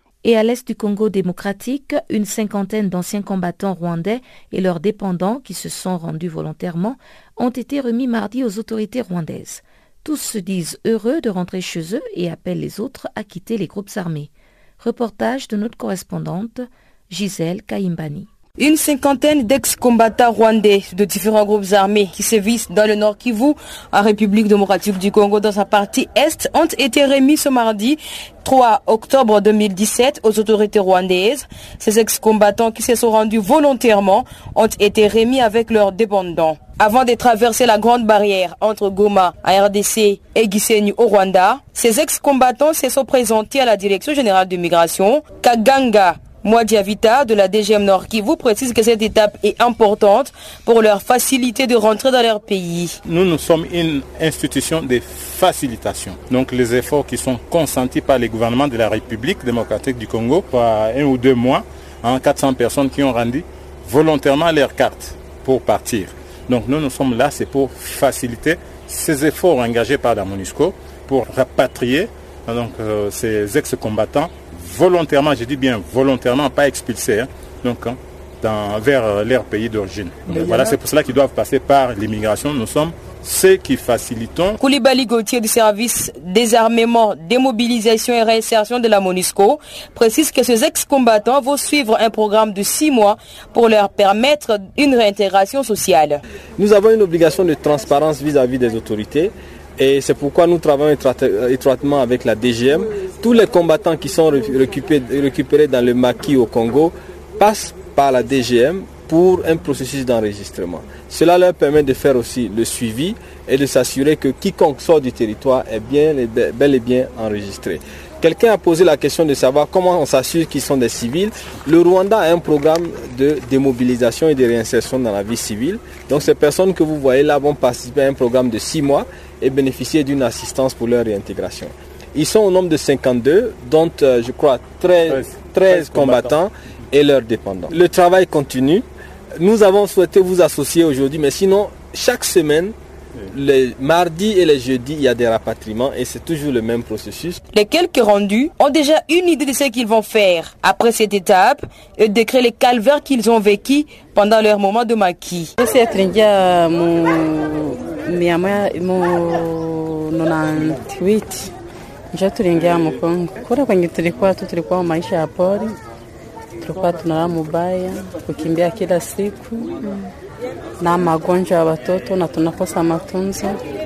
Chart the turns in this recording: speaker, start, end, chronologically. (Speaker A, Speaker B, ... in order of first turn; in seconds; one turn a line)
Speaker A: 0.2-18.3
Speaker B: 18.6-53.0
Speaker C: 53.0-84.6
Speaker B: 84.6-96.2
Speaker D: 96.6-138.8
Speaker C: 135.1-136.4
Speaker D: 139.4-142.7
Speaker D: 143.3-147.4
Speaker B: 147.5-155.5
Speaker E: 155.6-161.5
Speaker E: 162.1-165.8
Speaker E: 166.6-170.0
Speaker E: 170.8-173.6